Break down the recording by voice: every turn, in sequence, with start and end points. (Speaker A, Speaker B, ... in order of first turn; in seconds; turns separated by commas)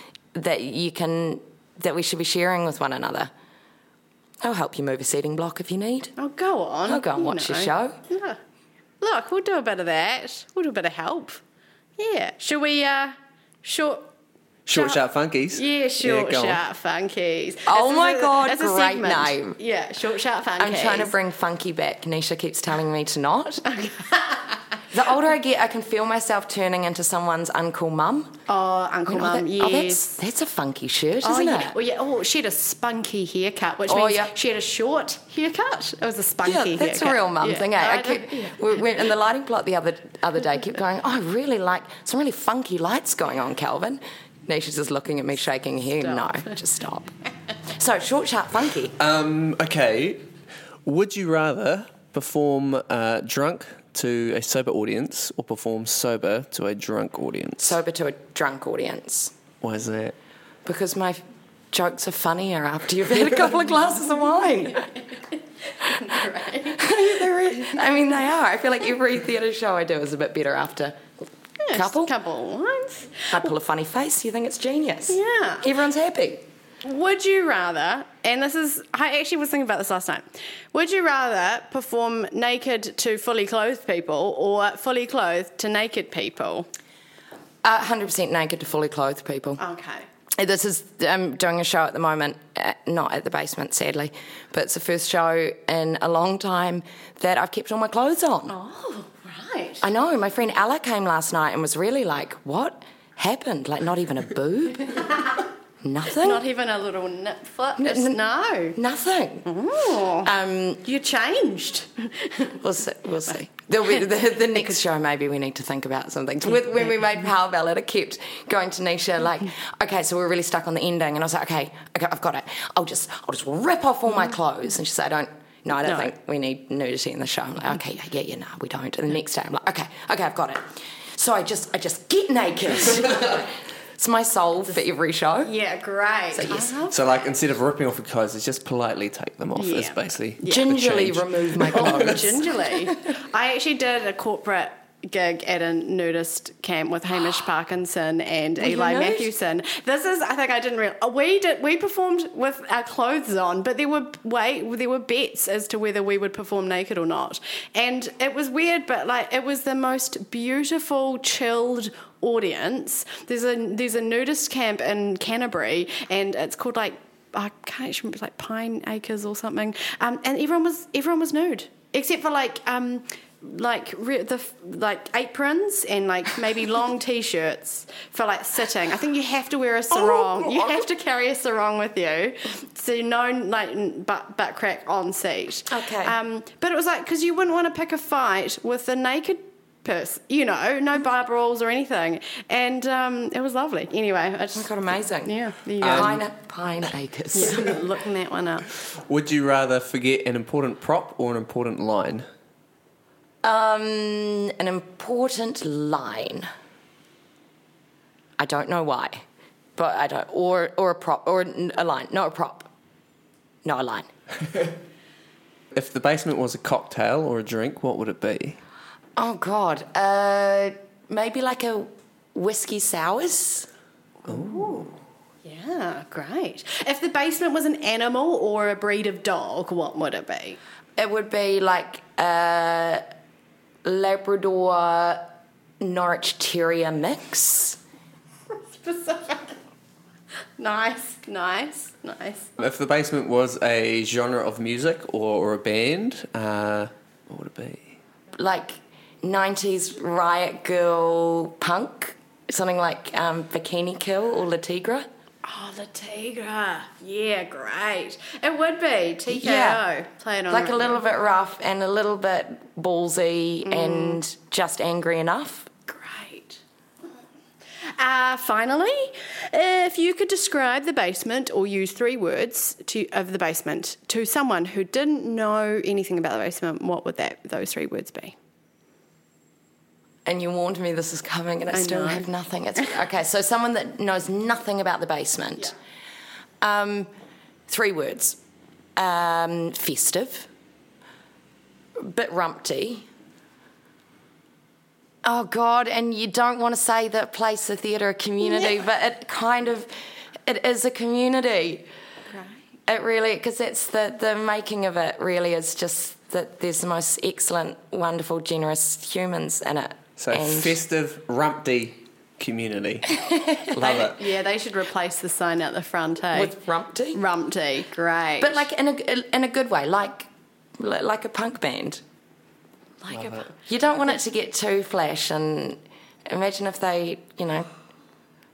Speaker A: 0.3-3.3, Speaker A: 4.4-6.1, Speaker B: 6.2-8.4, Speaker A: 6.8-8.0, Speaker B: 9.0-11.4, Speaker B: 12.0-14.1, Speaker C: 14.7-16.6, Speaker B: 14.7-15.0, Speaker B: 15.5-21.1, Speaker A: 17.7-19.6, Speaker A: 20.6-23.6, Speaker B: 23.6-24.6, Speaker A: 24.9-28.4, Speaker B: 28.5-30.0, Speaker A: 29.1-31.8, Speaker B: 31.2-38.8, Speaker A: 33.9-34.3, Speaker A: 36.4-47.1, Speaker B: 46.1-46.5, Speaker A: 47.8-49.0, Speaker C: 49.0-50.2, Speaker C: 50.9-57.8, Speaker A: 57.6-59.3, Speaker C: 59.6-60.1, Speaker A: 60.6-64.9, Speaker B: 65.9-66.9, Speaker A: 66.7-71.0, Speaker B: 71.6-73.4, Speaker A: 71.7-72.1, Speaker A: 73.3-76.4, Speaker B: 75.1-75.7, Speaker B: 76.8-86.7, Speaker A: 87.6-89.6, Speaker B: 89.6-90.0, Speaker A: 90.3-98.5, Speaker B: 98.5-99.8, Speaker A: 99.8-105.2, Speaker A: 105.8-106.4, Speaker B: 106.2-108.8, Speaker A: 107.8-108.2, Speaker A: 108.7-109.6, Speaker B: 109.5-110.3, Speaker A: 110.2-110.8, Speaker B: 110.8-112.6, Speaker A: 112.6-130.6, Speaker A: 131.2-135.5, Speaker B: 135.4-136.9, Speaker A: 136.3-136.7, Speaker C: 136.9-142.3, Speaker B: 139.6-140.7, Speaker A: 140.5-142.4, Speaker B: 141.7-194.7, Speaker A: 148.6-149.3, Speaker A: 179.9-180.8, Speaker A: 185.7-186.1, Speaker A: 194.5-197.8, Speaker B: 195.2-196.2, Speaker C: 195.8-196.2, Speaker B: 197.3-198.7, Speaker C: 199.1-202.3, Speaker A: 203.4-206.5, Speaker A: 208.4-209.2, Speaker A: 209.8-212.7, Speaker A: 213.6-214.1, Speaker C: 215.7-218.6, Speaker A: 219.2-223.7, Speaker B: 224.2-230.6, Speaker C: 224.3-224.8, Speaker A: 231.0-233.0, Speaker A: 233.8-235.3, Speaker A: 235.8-237.8, Speaker B: 238.5-239.6, Speaker B: 240.6-242.5, Speaker C: 242.6-247.9, Speaker A: 248.3-255.1, Speaker B: 255.4-261.0, Speaker A: 259.3-259.8, Speaker A: 260.5-265.7, Speaker B: 263.6-264.2, Speaker B: 265.9-266.6, Speaker B: 268.0-278.4, Speaker A: 280.2-285.7, Speaker B: 281.7-282.2, Speaker A: 286.6-287.1, Speaker A: 287.7-288.4, Speaker A: 288.9-290.5, Speaker A: 292.0-293.1, Speaker A: 295.2-299.9, Speaker A: 300.4-301.9, Speaker B: 302.3-302.6, Speaker A: 302.9-310.8, Speaker C: 310.2-313.1, Speaker A: 313.2-313.7, Speaker C: 313.7-314.2, Speaker B: 313.8-316.5, Speaker A: 316.3-317.2, Speaker B: 317.1-318.6, Speaker A: 318.4-322.0, Speaker B: 323.0-323.5, Speaker C: 323.1-323.5, Speaker A: 323.6-327.7